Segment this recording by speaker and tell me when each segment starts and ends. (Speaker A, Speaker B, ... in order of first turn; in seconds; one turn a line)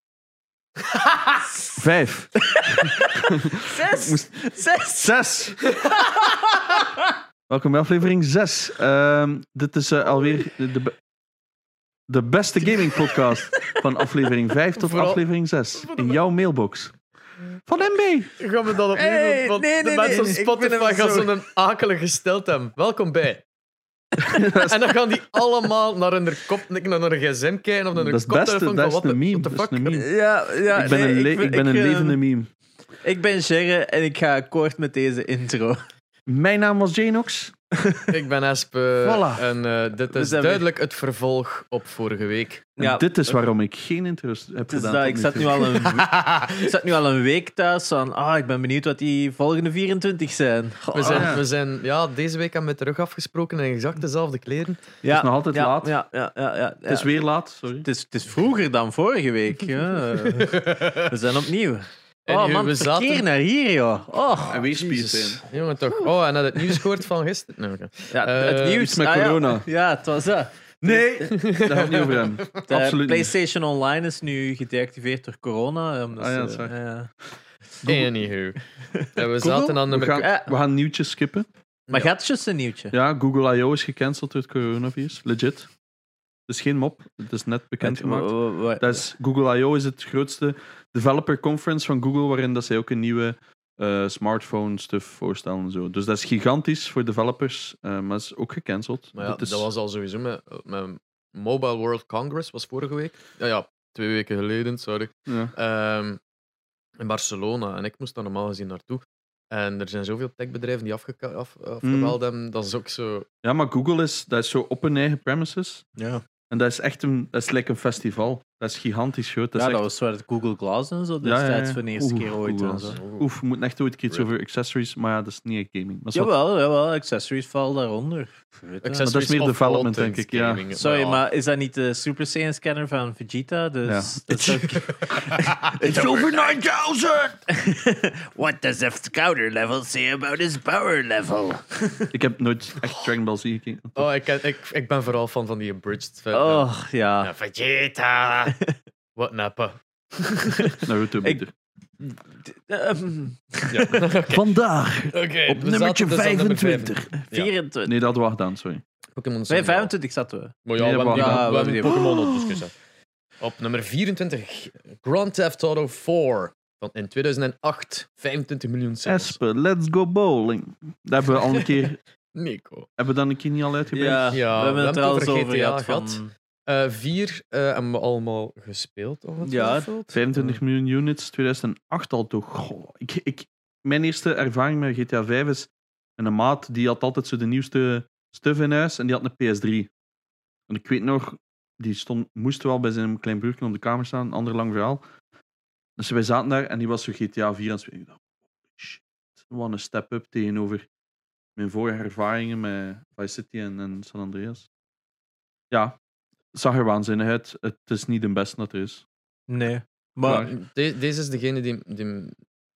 Speaker A: 1.7-5.7
Speaker B: 2.4-5.1
Speaker B: 6.0-6.9
Speaker A: 7.5-10.9
Speaker A: 12.1-17.0
Speaker B: 12.8-14.0
Speaker C: 14.8-15.2
Speaker C: 15.9-16.1
Speaker A: 17.6-18.4
Speaker C: 18.4-23.4
Speaker B: 18.9-21.4
Speaker A: 24.3-24.8
Speaker C: 24.5-30.0
Speaker A: 27.9-30.1
Speaker B: 29.9-32.2
Speaker A: 30.7-32.5
Speaker B: 33.0-35.8
Speaker A: 36.3-37.5
Speaker B: 37.8-38.1
Speaker C: 38.1-42.7
Speaker A: 39.0-39.4
Speaker B: 40.1-40.6
Speaker B: 42.8-43.0
Speaker A: 42.8-45.7
Speaker B: 44.7-51.4
Speaker C: 45.8-46.7
Speaker C: 50.9-54.8
Speaker A: 51.1-51.4
Speaker B: 55.0-57.1
Speaker A: 55.1-56.0
Speaker A: 56.9-57.9
Speaker B: 57.8-66.1
Speaker C: 60.2-61.1
Speaker C: 62.2-63.2
Speaker A: 64.5-65.4
Speaker C: 65.5-68.8
Speaker B: 68.1-70.6
Speaker A: 68.8-69.7
Speaker A: 70.8-73.3
Speaker C: 71.2-72.5
Speaker B: 72.7-77.1
Speaker A: 76.2-76.8
Speaker A: 77.8-78.1
Speaker C: 77.8-80.2
Speaker B: 78.8-80.5
Speaker A: 79.9-81.5
Speaker B: 81.9-82.9
Speaker A: 82.9-85.7
Speaker A: 86.5-99.7
Speaker B: 87.8-89.1
Speaker C: 99.2-106.2
Speaker A: 105.3-105.5
Speaker C: 107.0-113.3
Speaker A: 111.8-112.2
Speaker A: 113.4-115.9
Speaker B: 116.0-116.2
Speaker A: 116.5-119.8
Speaker B: 119.5-123.0
Speaker A: 121.2-126.3
Speaker C: 122.9-123.3
Speaker B: 126.1-129.1
Speaker C: 128.8-131.2
Speaker A: 129.0-130.6
Speaker B: 130.7-136.3
Speaker A: 133.8-137.4
Speaker C: 134.8-136.3
Speaker B: 137.5-142.1
Speaker A: 142.1-144.1
Speaker C: 143.9-146.7
Speaker B: 146.3-147.3
Speaker C: 147.2-148.5
Speaker C: 149.2-150.8
Speaker B: 150.5-151.4
Speaker A: 150.8-151.5
Speaker B: 152.0-154.0
Speaker C: 153.7-154.4
Speaker A: 154.3-157.1
Speaker C: 155.1-157.5
Speaker B: 157.2-157.9
Speaker A: 157.8-158.8
Speaker C: 159.1-159.9
Speaker B: 159.5-162.1
Speaker C: 160.6-162.8
Speaker A: 160.8-162.1
Speaker C: 163.4-169.3
Speaker A: 169.1-172.0
Speaker C: 172.3-172.9
Speaker A: 173.0-174.4
Speaker B: 173.9-176.3
Speaker C: 174.3-180.6
Speaker B: 179.4-179.9
Speaker A: 180.1-189.9
Speaker A: 190.7-195.0
Speaker A: 196.0-198.2
Speaker A: 198.7-200.8
Speaker A: 201.6-204.7
Speaker A: 205.7-206.0
Speaker A: 206.5-209.0
Speaker B: 209.5-210.5
Speaker A: 210.2-210.5
Speaker C: 210.3-212.4